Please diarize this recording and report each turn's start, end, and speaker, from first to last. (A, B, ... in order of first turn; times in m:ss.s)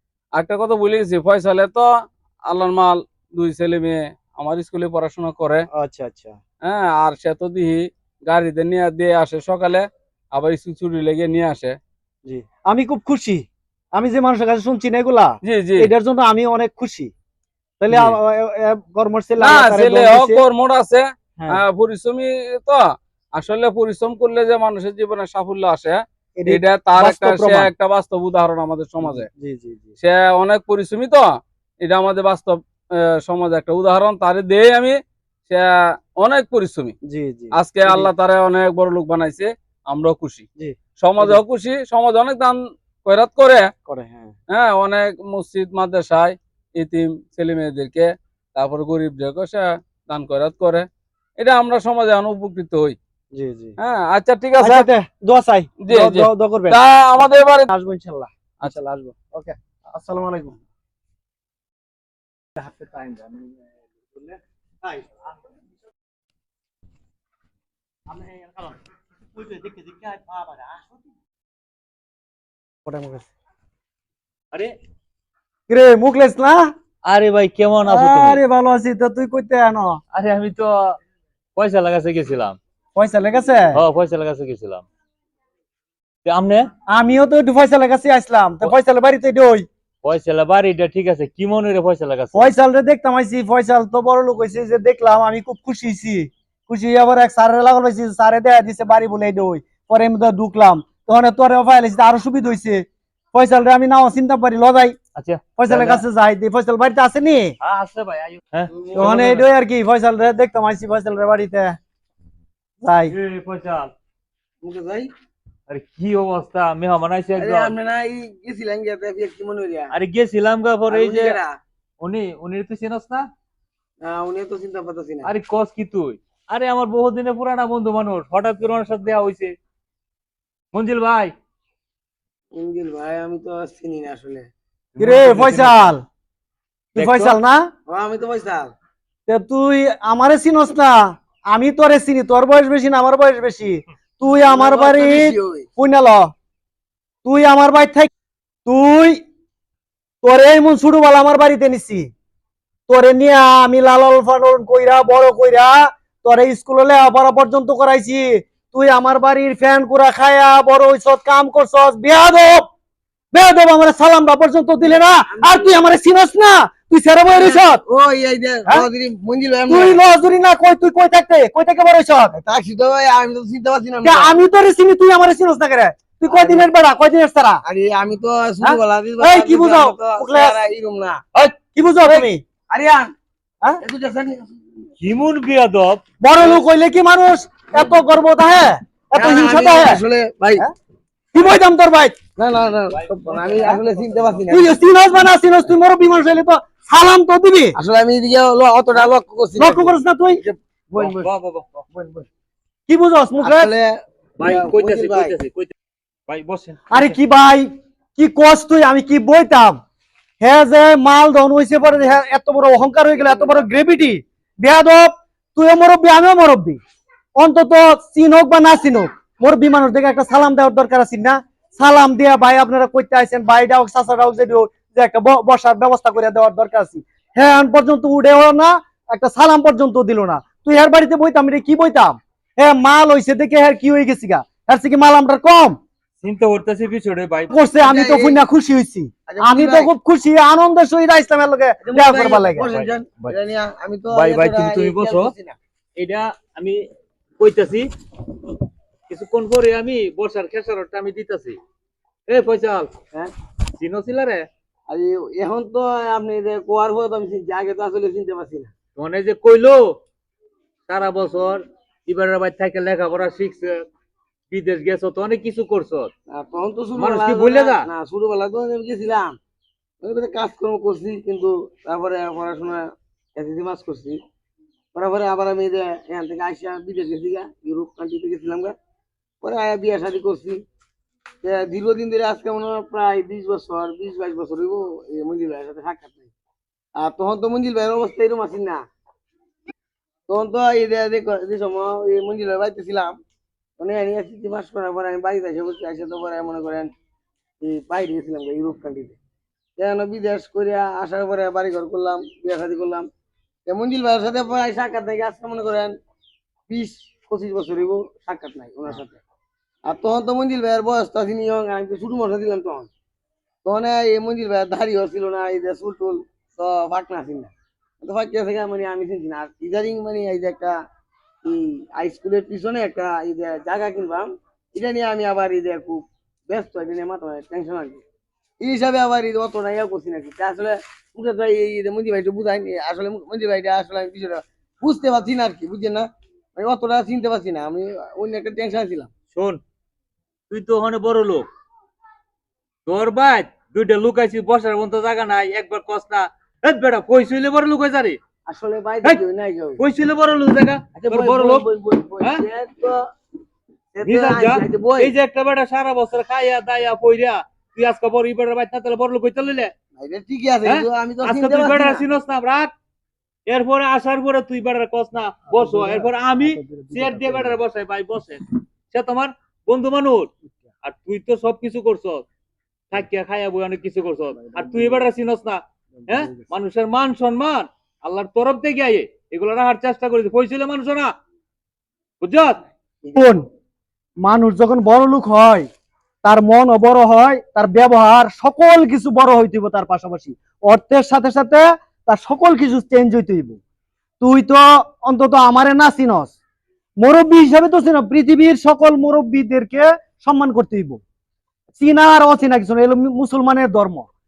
0:00.4-0:01.9 A
0:02.5-0:05.7 A
0:05.8-0:06.4 B
0:06.7-0:11.8 A
0:12.3-0:13.4 B
0:14.0-0:17.1 B
0:15.4-0:15.9 A
0:17.8-0:20.4 B
0:17.9-0:18.2 A
0:19.4-0:22.8 A
0:23.4-0:29.3 A
0:26.4-0:27.7 B
0:29.0-0:30.0 B
0:30.0-0:31.2 A
0:31.8-0:32.6 A
0:33.2-0:35.0 A
0:36.2-0:36.9 A
0:37.1-0:38.1 B
0:37.6-0:40.4 A
0:40.6-0:41.4 B
0:41.0-0:43.7 A
0:43.9-0:44.3 B
0:44.5-0:50.9 A
0:51.4-0:53.0 A
0:53.3-0:53.8 B
0:53.8-0:54.9 A
0:54.6-0:56.8 B
0:55.8-0:57.7 A
0:57.7-1:00.6 B
1:02.6-1:05.2 B
1:08.1-1:08.8 B
1:09.3-1:11.0 B
1:12.9-1:13.3 B
1:15.7-1:16.7 B
1:17.0-1:18.4 C
1:17.9-1:20.0 B
1:20.1-1:21.0 C
1:21.6-1:22.6 C
1:23.0-1:23.8 B
1:23.8-1:24.8 C
1:26.2-1:26.7 C
1:26.9-1:29.7 B
1:30.0-1:32.5 C
1:32.3-1:45.0 B
1:45.2-1:46.0 C
1:45.6-1:47.6 B
1:47.6-1:49.4 C
1:48.8-1:49.3 D
1:49.0-1:51.8 B
1:52.8-1:53.2 B
1:53.1-1:53.9 C
1:54.6-1:55.1 D
1:55.7-1:57.8 C
1:57.4-1:59.9 D
1:59.9-2:01.4 C
2:00.9-2:01.6 D
2:02.0-2:03.3 C
2:04.0-2:05.3 D
2:05.2-2:09.5 C
2:10.7-2:11.3 C
2:12.5-2:14.5 D
2:15.0-2:15.9 C
2:15.0-2:16.0 B
2:16.9-2:17.7 B
2:17.0-2:17.4 C
2:17.9-2:18.7 D
2:19.3-2:26.3 B
2:24.5-2:25.7 D
2:27.2-2:28.1 B
2:28.7-2:29.2 B
2:30.2-2:32.1 B
2:32.9-2:42.6 B
2:43.3-2:47.8 B
2:45.3-2:45.8 D
2:47.4-2:50.0 D
2:49.7-2:52.4 B
2:52.4-2:54.4 D
2:54.0-2:57.6 B
2:56.3-2:56.7 D
2:57.6-3:01.2 D
2:58.6-3:00.6 B
3:01.7-3:02.4 B
3:02.1-3:03.1 D
3:03.8-3:04.9 D
3:05.0-3:06.0 C
3:06.2-3:10.0 B
3:09.1-3:10.6 D
3:11.3-3:12.2 B
3:12.4-3:14.8 D
3:12.9-3:13.8 C
3:14.5-3:17.8 B
3:17.8-3:21.3 D
3:19.6-3:20.4 B
3:21.0-3:21.8 C
3:21.9-3:22.3 D
3:22.9-3:23.7 B
3:23.4-3:25.4 D
3:24.4-3:25.7 C
3:26.3-3:27.2 C
3:26.9-3:29.8 B
3:30.4-3:36.8 B
3:37.4-3:55.8 B
3:56.2-3:57.5 C
3:57.5-4:02.7 B
3:57.8-3:58.4 D
3:59.3-3:59.9 D
4:01.8-4:05.6 D
4:02.7-4:03.4 C
4:04.1-4:05.3 C
4:06.0-4:06.8 C
4:07.4-4:07.9 C
4:09.1-4:11.6 C
4:12.3-4:12.9 C
4:13.8-4:14.5 C
4:14.9-4:18.7 D
4:19.0-4:19.9 C
4:20.9-4:23.8 C
4:24.5-4:26.1 C
4:26.3-4:29.4 D
4:27.0-4:27.9 C
4:30.0-4:34.2 D
4:34.9-4:38.7 D
4:39.4-4:40.6 D
4:41.4-4:46.3 D
4:47.0-4:48.8 D
4:50.3-4:53.2 D
4:53.8-4:56.9 D
4:57.6-4:59.2 D
4:59.8-5:03.1 D
5:03.7-5:05.9 D
5:06.7-5:09.2 D
5:09.9-5:12.9 D
5:13.6-5:17.5 D
5:18.0-5:20.8 D
5:21.4-5:28.0 D
5:28.6-5:39.1 D
5:39.3-5:39.6 C
5:40.5-5:41.5 C
5:42.9-5:48.2 C
5:48.5-5:49.8 D
5:49.8-5:51.7 C
5:51.0-5:53.1 D
5:53.9-5:55.1 D
5:54.0-5:59.7 C
6:00.0-6:02.0 D
6:00.6-6:02.7 C
6:03.5-6:10.3 C
6:06.4-6:06.9 B
6:10.8-6:12.2 C
6:12.9-6:21.1 C
6:22.2-6:22.6 C
6:23.2-6:23.4 B
6:24.2-6:25.7 B
6:26.2-6:33.6 B
6:34.2-6:36.4 B
6:37.0-6:41.0 B
6:41.8-6:44.1 B